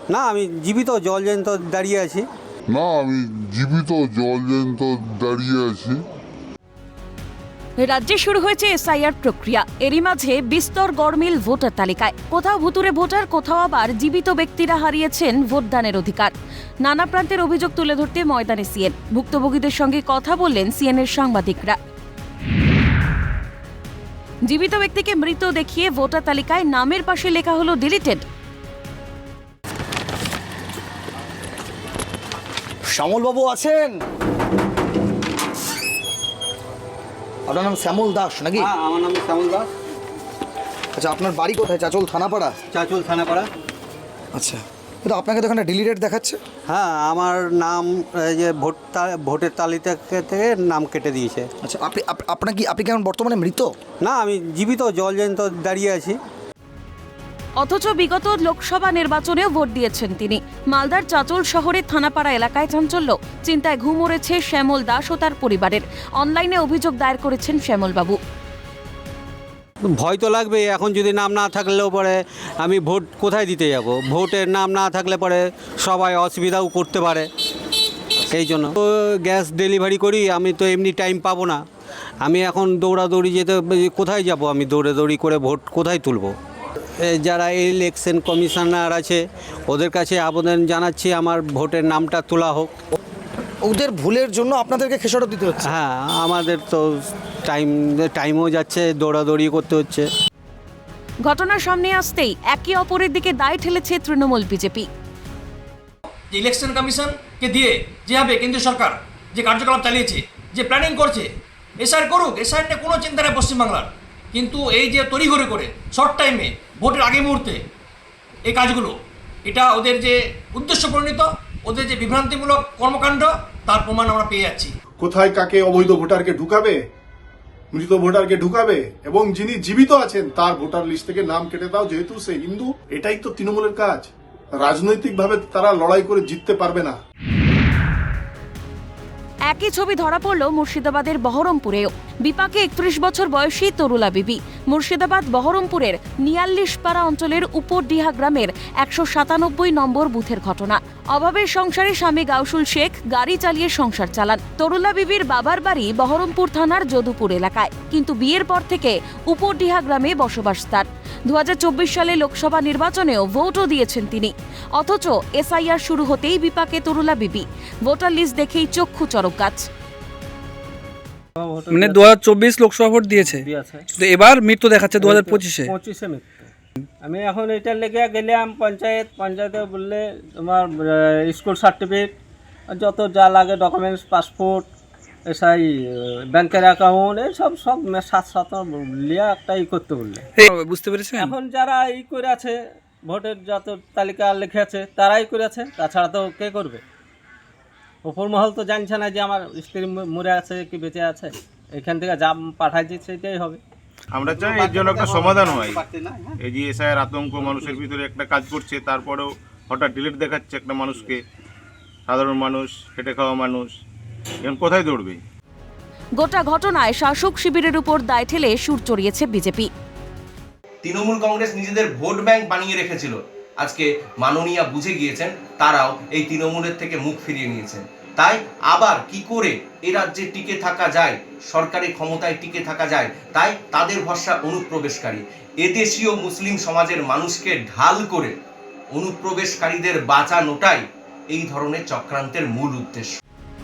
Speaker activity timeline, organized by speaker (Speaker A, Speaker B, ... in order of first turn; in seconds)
Speaker A: 0.1-2.2, 38.5-39.7, 42.7-43.5, 46.7-51.5, 54.0-56.1, 69.9-77.3, 78.3-81.6, 82.2-86.3, 87.0-92.7, 95.6-96.8, 97.5-100.1
Speaker B: 2.7-6.0
Speaker C: 7.8-21.8, 24.4-28.2, 57.6-68.2, 101.2-104.9, 139.5-169.7, 216.2-219.7
Speaker D: 32.9-34.0, 37.5-38.7, 41.0-42.5, 44.3-46.4, 51.6-53.7, 93.6-95.7
Speaker E: 106.3-111.3, 111.8-117.6, 118.5-124.7
Speaker F: 125.0-126.8, 127.7-134.1, 134.6-136.9
Speaker G: 171.4-172.2, 173.1-173.8, 175.0-176.5, 177.0-182.1, 182.7-184.7, 185.3-190.2, 191.1-196.8, 198.0-203.6
Speaker H: 171.7-175.7, 190.3-191.3
Speaker I: 204.1-205.8, 206.4-211.2, 212.1-213.7, 214.4-215.2
Speaker J: 220.8-238.3, 238.9-243.1